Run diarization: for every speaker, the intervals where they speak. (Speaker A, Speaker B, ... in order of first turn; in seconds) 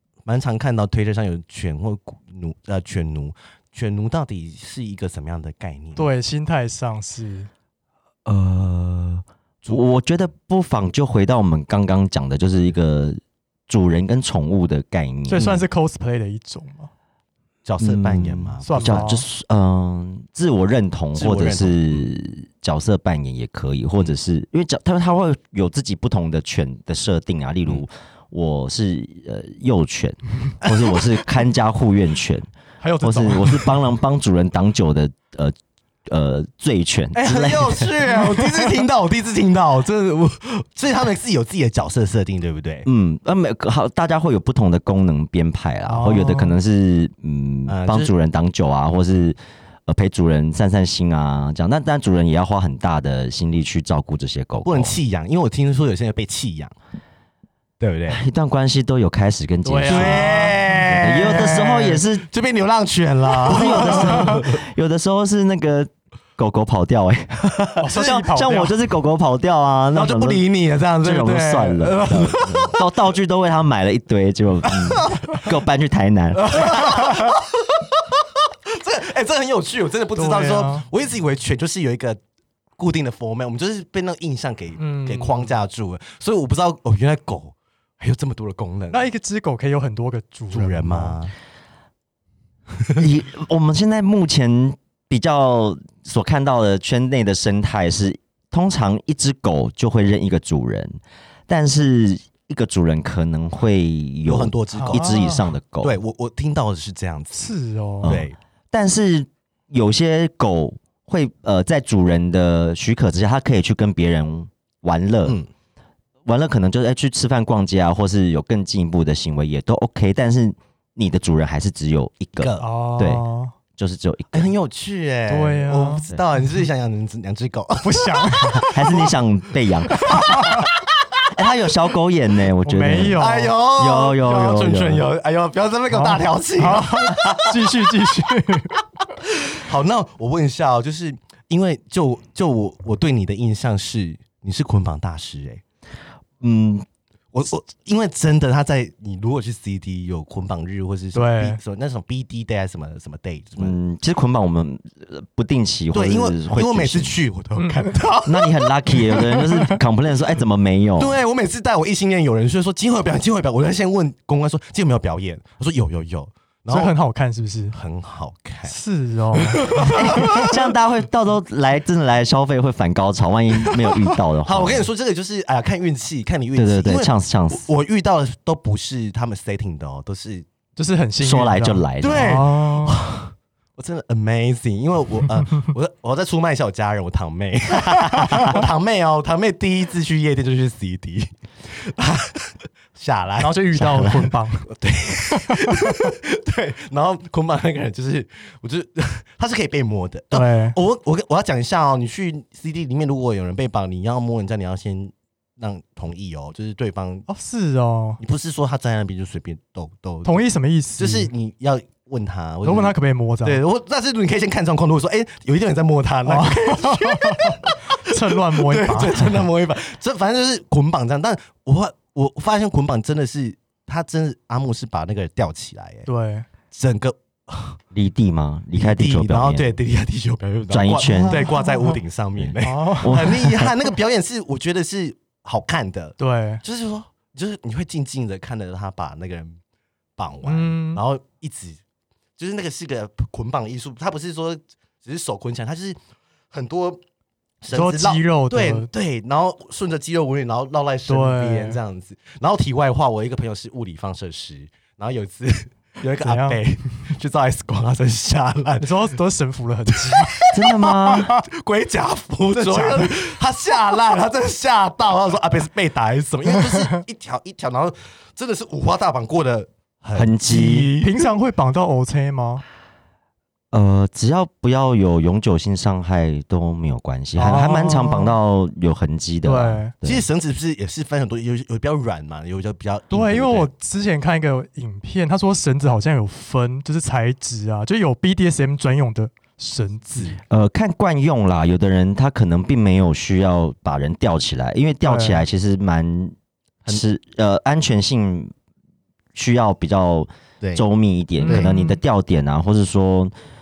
Speaker A: 0.3-6.1, 17.6-19.1, 21.1-22.1, 32.8-33.5, 37.1-42.9, 47.7-48.1, 54.6-56.8, 57.8-58.2, 59.9-64.6, 69.9-72.8, 74.7-75.5, 76.3-78.1, 78.7-82.2, 82.8-89.0, 90.5-91.3, 104.3-105.2, 105.8-107.5, 108.0-108.4, 122.4-122.7, 124.3-129.1, 130.1-130.7, 133.2-137.6, 139.2-145.6, 147.3-153.8, 155.9-159.2, 161.0-166.9, 167.7-168.8, 169.3-170.6, 174.4-180.5, 182.0-207.3, 208.2-210.4, 211.0-226.1, 226.7-227.8, 228.7-239.6, 240.2-241.8, 242.4-246.0, 246.5-247.0, 247.6-259.1, 259.9-271.3, 280.0-283.7
Speaker B: 6.0-7.5, 15.3-16.9, 18.6-19.2, 32.9-33.2, 45.9-46.6, 59.6-60.9, 63.7-64.4, 67.8-68.8, 80.2-80.9, 84.8-85.6, 88.9-91.2, 104.8-105.5, 107.3-108.2, 122.6-123.5, 125.3-126.0, 127.8-128.8, 130.1-130.6, 132.6-133.5, 135.9-138.8, 151.1-151.6, 157.6-157.9, 166.7-167.8, 168.7-170.5, 180.8-183.0, 193.4-194.7, 195.3-196.1, 200.3-200.8, 207.3-208.2, 210.2-211.3, 212.6-213.6, 216.3-219.5, 226.1-226.5, 231.1-231.9, 232.6-233.4, 236.2-236.6, 240.4-241.0, 247.7-248.9, 251.1-251.8, 256.2-256.6, 258.8-260.5, 261.1-261.4, 262.6-263.2, 266.6-266.9, 271.0-272.6, 277.4-278.4, 279.4-279.9, 283.1-290.4, 295.0-295.4, 301.4-302.0
Speaker C: 8.3-15.6, 17.8-32.5, 33.0-35.5, 36.1-37.9, 42.9-54.9, 58.1-62.3, 63.5-70.4, 71.0-77.0, 93.0-106.0, 108.0-115.4, 116.2-123.2, 123.8-124.5, 128.6-130.5, 131.3-135.1, 146.4-146.9, 153.6-157.2, 158.3-161.2, 169.8-174.9, 176.6-177.7, 181.2-182.4, 227.9-229.8, 230.7-231.5, 233.0-233.7, 260.5-261.3, 270.1-270.9, 273.7-280.2, 290.5-296.4, 296.9-298.5, 299.3-303.3